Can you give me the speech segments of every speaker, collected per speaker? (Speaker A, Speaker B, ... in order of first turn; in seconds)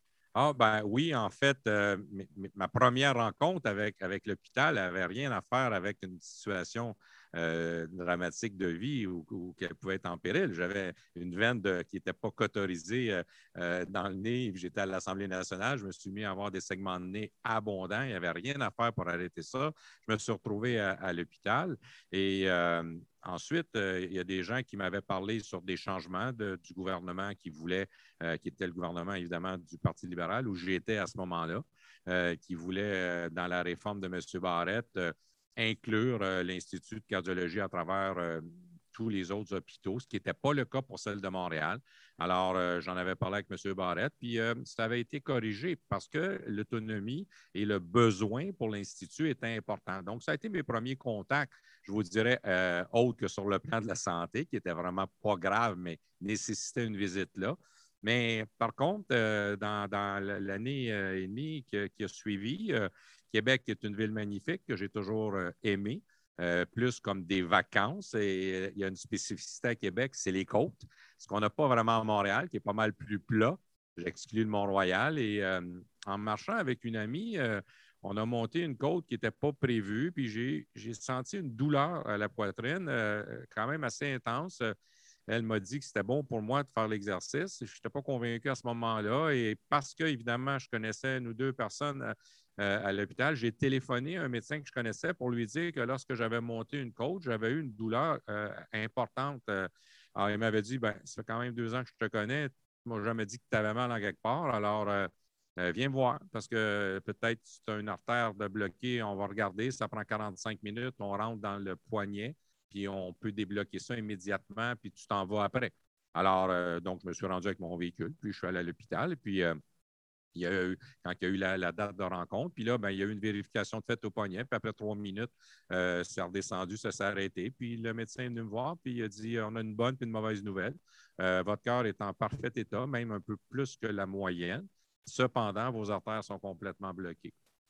Speaker A: 0.3-84.7, 85.3-119.5, 120.3-137.3